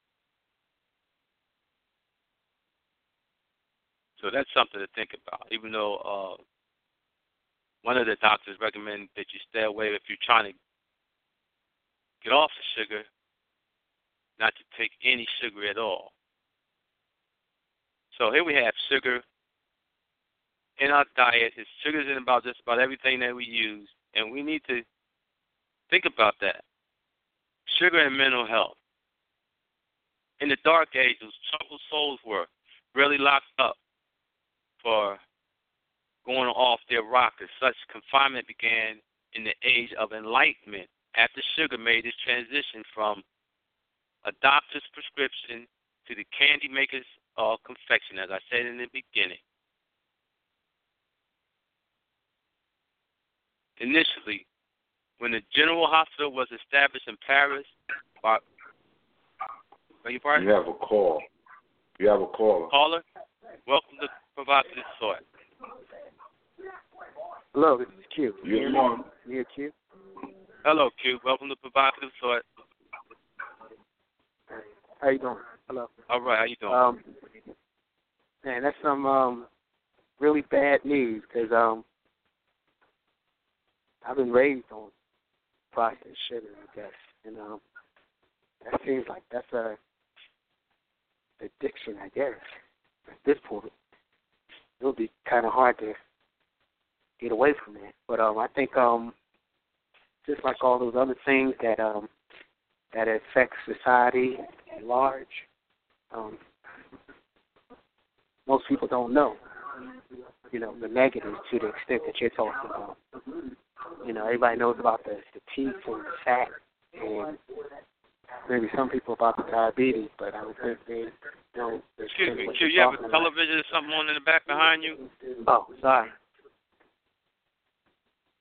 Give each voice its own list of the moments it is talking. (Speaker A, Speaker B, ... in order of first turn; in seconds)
Speaker A: 4.2-6.4, 7.8-10.6, 12.2-13.1, 14.4-16.1, 18.1-19.2, 20.8-24.9, 25.9-26.6, 27.7-28.8, 30.4-33.8, 34.8-35.2, 36.2-43.2, 44.2-49.4, 53.8-54.5, 55.2-58.4, 60.0-60.5, 62.7-63.0, 63.7-65.2, 70.6-72.4, 76.1-76.8, 122.1-125.0
Speaker B: 60.4-61.3, 62.0-62.7, 68.4-69.0
Speaker C: 67.5-69.7, 74.6-75.9, 76.7-77.1, 78.4-79.5, 80.2-81.8, 84.0-84.9, 85.7-87.6, 88.6-89.8, 91.4-92.4, 93.1-93.7, 94.8-96.0, 97.2-99.1, 100.2-102.1, 102.9-105.5, 106.1-106.4, 108.5-109.4, 110.5-113.0, 114.0-117.4, 118.5-123.3, 125.5-126.1